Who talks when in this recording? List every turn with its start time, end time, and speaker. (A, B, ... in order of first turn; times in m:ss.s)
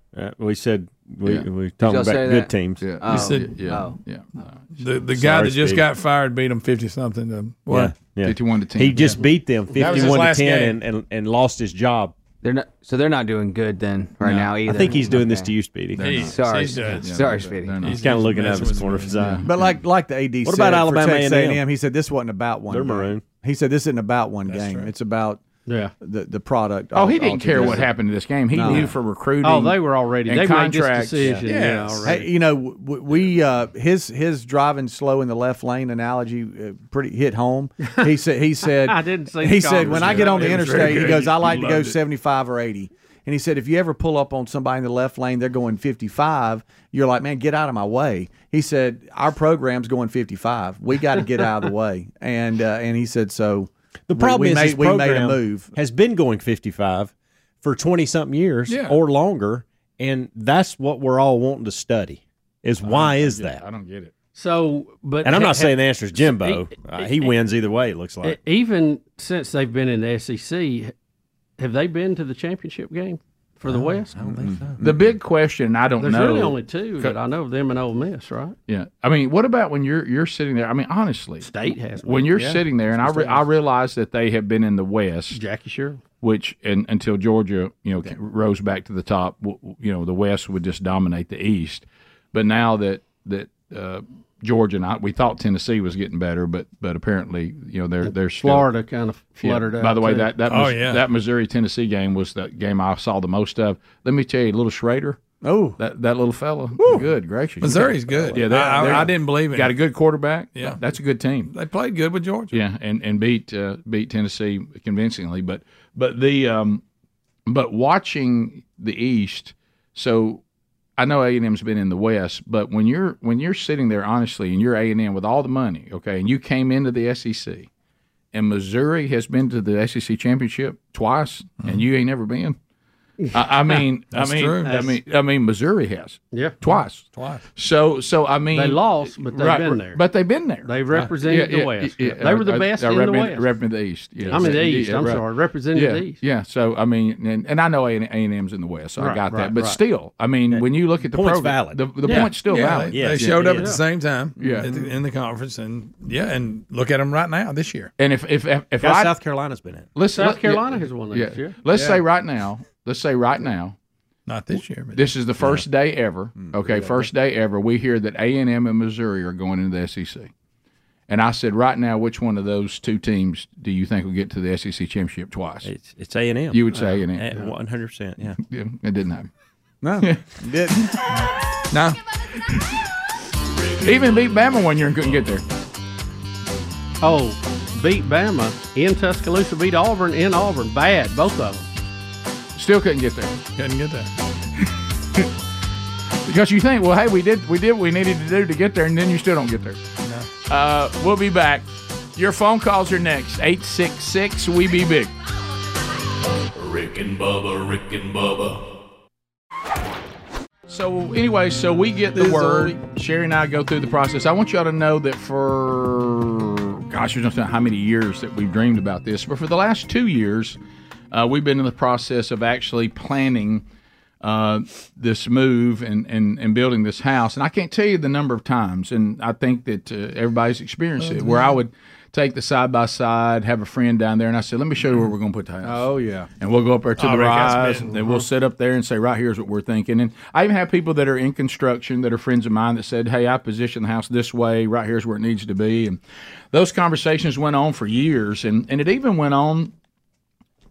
0:00.2-0:02.9 A
0:01.8-0:04.0 B
0:02.8-0:04.7 C
0:03.1-0:03.6 D
0:04.8-0:08.0 D
0:05.1-0:05.9 A
0:07.7-0:12.1 A
0:08.2-0:09.2 C
0:09.7-0:10.8 D
0:12.4-0:15.5 B
0:14.2-0:16.3 A
0:16.0-0:18.0 C
0:16.0-0:19.4 D
0:16.3-0:17.8 B
0:18.0-0:19.6 A
0:19.1-0:19.4 C
0:19.4-0:25.4 E
0:20.4-0:21.6 A
0:22.7-0:23.2 A
0:24.5-0:24.9 D
0:25.7-0:25.9 F
0:26.0-0:27.9 E
0:26.9-0:31.4 C
0:28.5-0:28.9 E
0:29.4-0:32.2 F
0:31.4-0:32.2 D
0:32.0-0:55.7 E
0:38.9-0:41.2 F
0:39.9-0:42.0 D
0:54.1-1:03.6 A
0:58.7-0:59.0 D
1:02.8-1:04.1 C
1:04.4-1:07.3 F
1:05.2-1:08.4 A
1:08.2-1:10.9 F
1:11.6-1:14.2 F
1:13.7-1:14.9 A
1:14.4-1:14.9 E
1:14.8-1:17.2 C
1:16.0-1:18.6 F
1:18.7-1:21.5 C
1:21.4-1:23.4 F
1:22.0-1:25.4 C
1:25.3-1:26.0 F
1:26.2-1:38.7 C
1:38.0-1:40.3 F
1:39.4-1:45.2 C
1:40.5-1:41.0 D
1:45.4-1:45.8 E
1:45.8-1:51.5 C
1:46.8-1:47.1 E
1:47.6-1:49.7 D
1:51.5-1:52.6 D
1:52.5-1:56.8 C
1:57.5-2:00.4 C
2:01.0-2:07.7 C
2:08.3-2:12.6 C
2:13.3-2:33.6 C
2:14.1-2:14.8 D
2:14.6-2:15.0 F
2:16.7-2:17.4 D
2:18.5-2:20.0 F
2:20.6-2:23.5 F
2:24.3-2:26.2 F
2:29.0-2:29.8 F
2:30.5-2:32.2 A
2:32.0-2:37.9 D
2:32.9-2:33.8 A
2:33.5-2:33.8 F
2:34.4-2:34.7 C
2:38.0-2:39.1 C
2:38.8-2:39.9 A
2:40.0-2:43.8 C
2:40.1-2:41.6 F
2:44.3-2:45.1 D
2:44.9-2:50.3 C
2:51.1-2:55.7 C
2:55.6-2:58.4 A
2:56.5-2:57.3 C
2:58.4-2:59.3 C
2:59.8-3:00.8 E
3:01.7-3:02.0 D
3:03.6-3:04.0 G
3:03.8-3:05.4 C
3:07.0-3:11.7 F
3:12.6-3:13.4 C
3:13.6-3:14.1 D
3:16.2-3:19.8 C
3:20.0-3:20.3 D
3:20.5-3:25.1 C
3:26.6-3:28.6 G
3:30.7-3:40.6 C
3:32.2-3:32.8 E
3:41.1-3:43.6 C
3:44.2-3:55.9 C
3:51.0-3:51.5 D
3:56.4-4:06.0 C
3:57.0-3:58.2 D
4:06.5-4:09.7 C